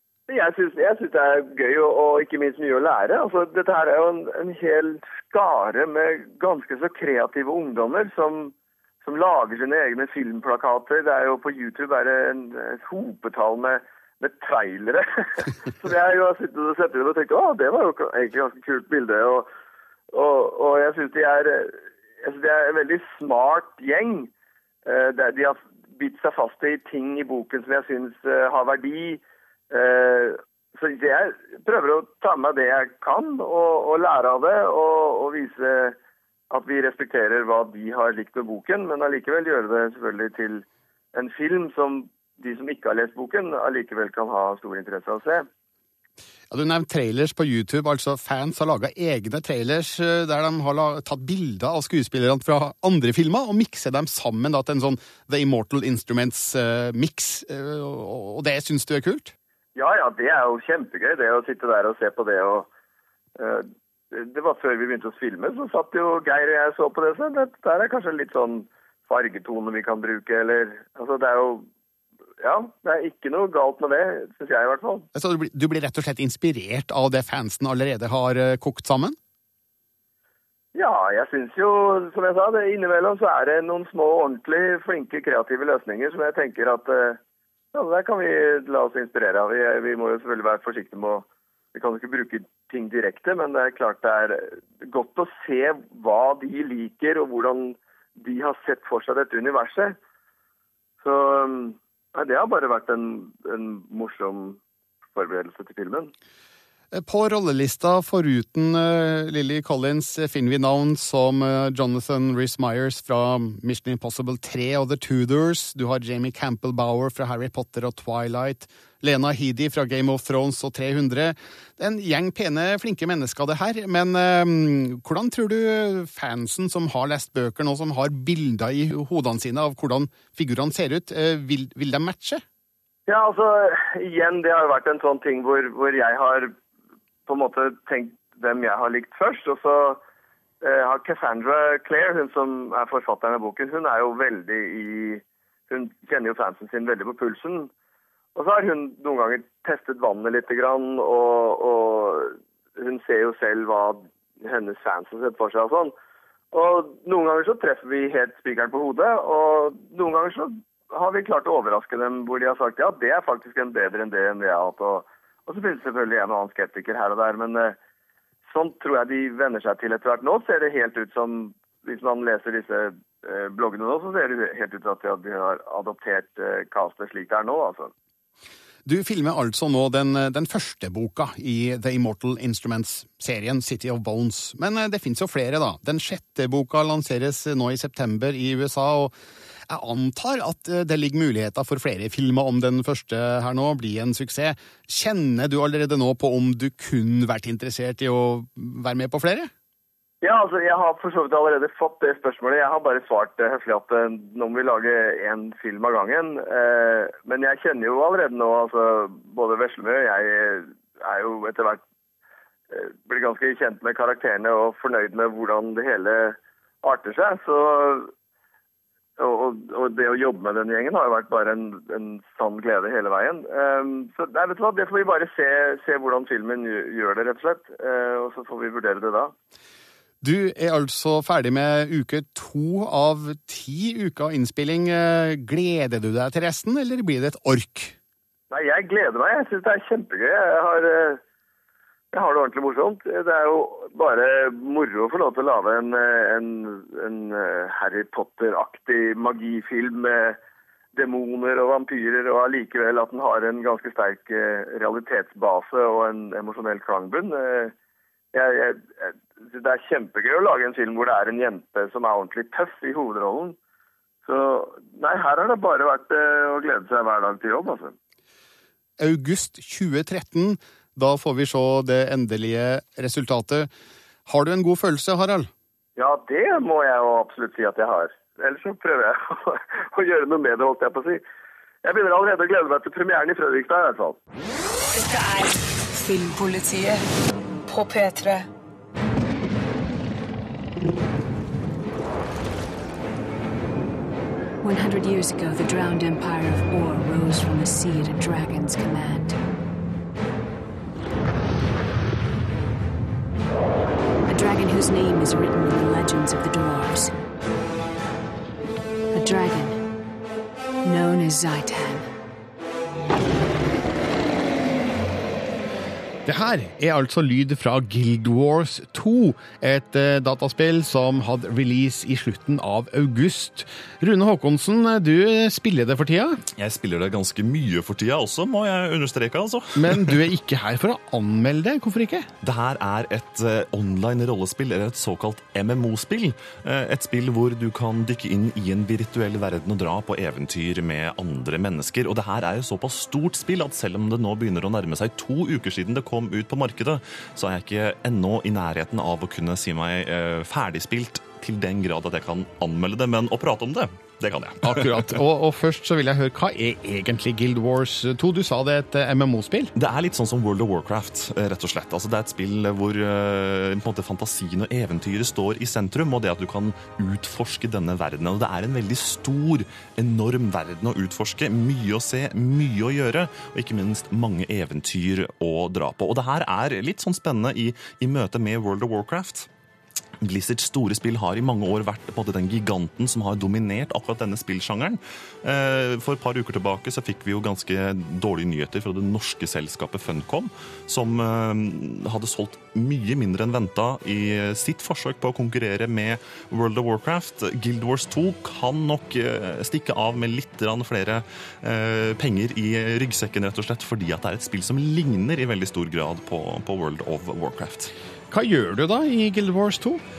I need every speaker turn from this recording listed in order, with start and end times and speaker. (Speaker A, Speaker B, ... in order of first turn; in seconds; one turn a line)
Speaker A: 0.3-8.5
Speaker A: 9.0-19.5
Speaker A: 20.1-24.3
Speaker A: 24.9-36.0
Speaker A: 36.5-45.5
Speaker B: 46.5-59.3
Speaker A: 59.8-62.7
Speaker A: 63.4-71.7
Speaker A: 72.4-75.1
Speaker B: 75.2-79.2
Speaker A: 80.8-87.2
Speaker A: 87.7-100.0
Speaker A: 101.0-104.6
Speaker A: 105.2-106.1
Speaker B: 106.9-132.4
Speaker A: 133.1-136.5
Speaker A: 137.2-140.0
Speaker A: 140.6-147.7
Speaker A: 148.4-155.9
Speaker A: 156.5-167.8
Speaker A: 168.5-177.9
Speaker B: 178.9-189.1
Speaker B: 189.7-199.5
Speaker A: 200.2-211.8
Speaker A: 212.7-218.1
Speaker A: 219.2-229.3
Speaker B: 230.2-238.0
Speaker A: 238.5-241.2
Speaker A: 242.1-250.4
Speaker A: 250.9-257.7
Speaker A: 258.3-263.6
Speaker A: 264.2-267.9
Speaker B: 269.0-273.7
Speaker B: 274.2-275.5
Speaker A: 276.0-281.2
Speaker A: 281.8-284.2
Speaker C: 284.9-287.1
Speaker C: 287.7-288.5
Speaker D: 294.6-299.4
Speaker D: 304.3-307.1
Speaker D: 309.1-309.8
Speaker D: 310.8-312.1
Speaker B: 316.2-326.4
Speaker E: 326.5-330.2
Speaker B: 329.8-332.3
Speaker E: 332.4-355.2
Speaker B: 354.6-359.7
Speaker E: 359.8-379.5
Speaker E: 380.2-407.9
Speaker B: 408.3-410.0